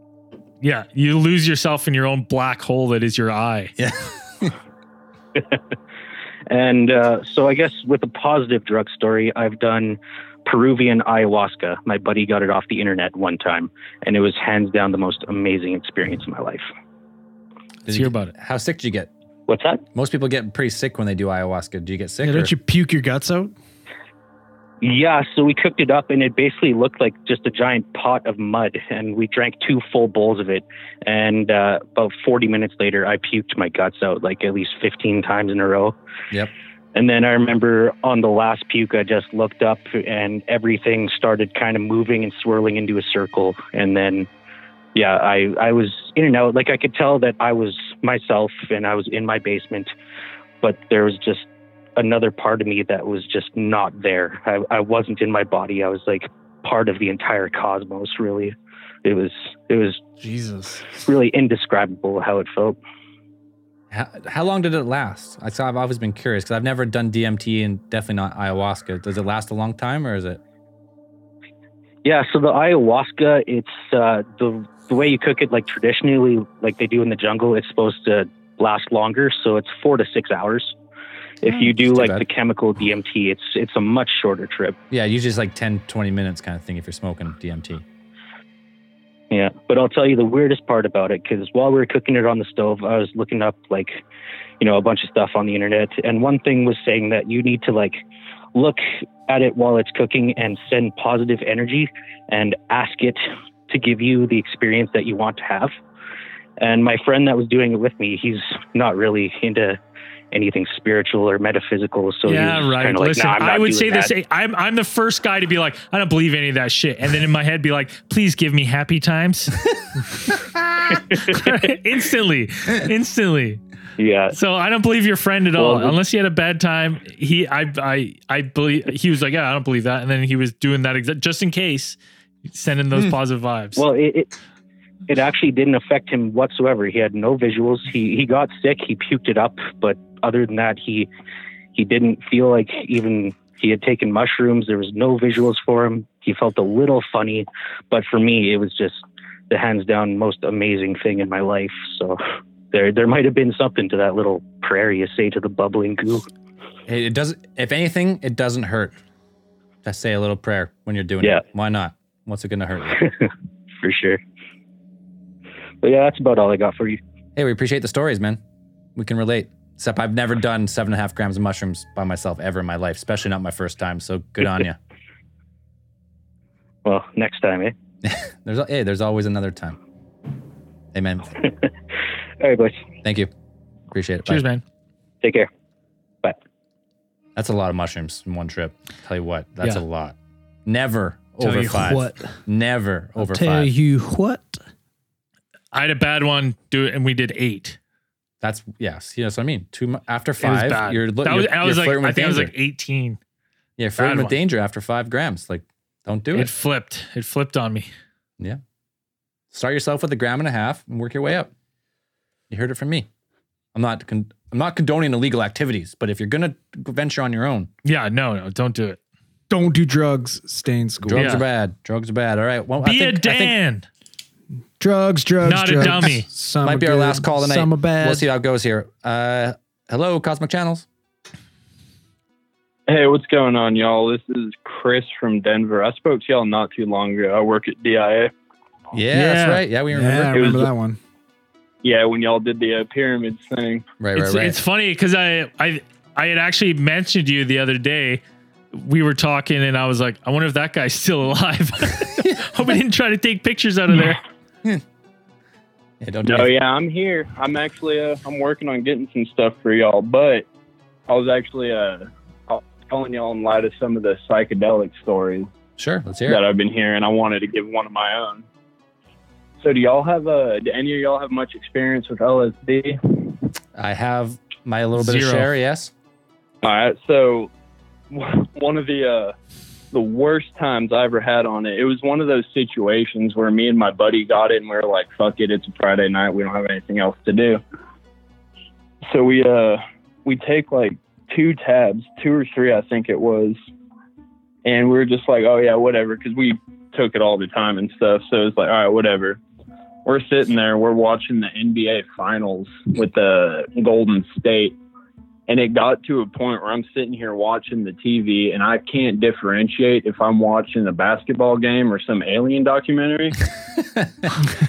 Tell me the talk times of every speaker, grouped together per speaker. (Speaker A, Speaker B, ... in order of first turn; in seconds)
Speaker A: 0.6-3.7, 17.9-18.3, 112.3-119.6, 121.1-123.6, 124.3-133.8, 184.3-184.6, 195.7-197.8, 200.4-203.2, 203.9-204.4, 206.3-207.9, 217.8-219.0, 221.1-221.4, 222.8-223.8, 225.4-226.3, 239.1-239.6, 244.2-248.2, 248.7-254.2, 274.9-275.5
Speaker B: 3.8-4.5, 17.8-19.1, 19.9-22.5, 63.9-70.4, 81.5-82.3, 84.9-87.8, 156.9-158.9, 159.8-163.1, 167.4-168.4, 168.9-174.8, 178.0-179.8, 180.9-181.3, 183.0-183.3, 183.9-184.5, 187.4-190.1, 190.7-193.7, 198.4-202.5, 203.8-206.5, 209.5-211.5, 212.5-213.1, 213.7-217.7, 221.0-223.6, 226.6-230.9, 238.9-240.7, 244.0-244.6, 256.0-256.5, 265.8-266.4, 273.8-275.9, 314.0-314.3
Speaker C: 5.3-5.6, 6.5-16.7, 19.5-19.8, 24.8-36.0, 37.0-44.3, 45.0-49.9, 50.6-60.0, 60.9-62.8, 72.0-80.8, 81.4-84.8, 89.3-94.0, 94.6-98.0, 98.5-105.7, 106.6-109.8, 110.3-114.1, 120.9-121.4, 124.0-124.4, 125.5-126.0, 133.8-134.3, 135.1-141.1, 141.7-152.2, 152.7-156.3, 162.9-164.2, 165.8-167.0, 176.8-177.7, 181.4-181.7, 182.4-182.8, 185.2-185.5
Speaker D: 22.2-23.5, 60.2-61.0, 191.4-192.4, 193.2-194.6, 219.5-221.3, 224.8-228.3, 239.9-241.0
Speaker E: 232.9-238.3, 240.3-240.7, 241.8-243.8, 256.2-260.4, 261.1-265.5, 266.3-268.4, 269.6-273.4, 276.6-277.5, 278.1-279.3, 279.9-287.6, 289.1-293.6, 294.6-299.4, 300.1-304.8, 305.5-313.4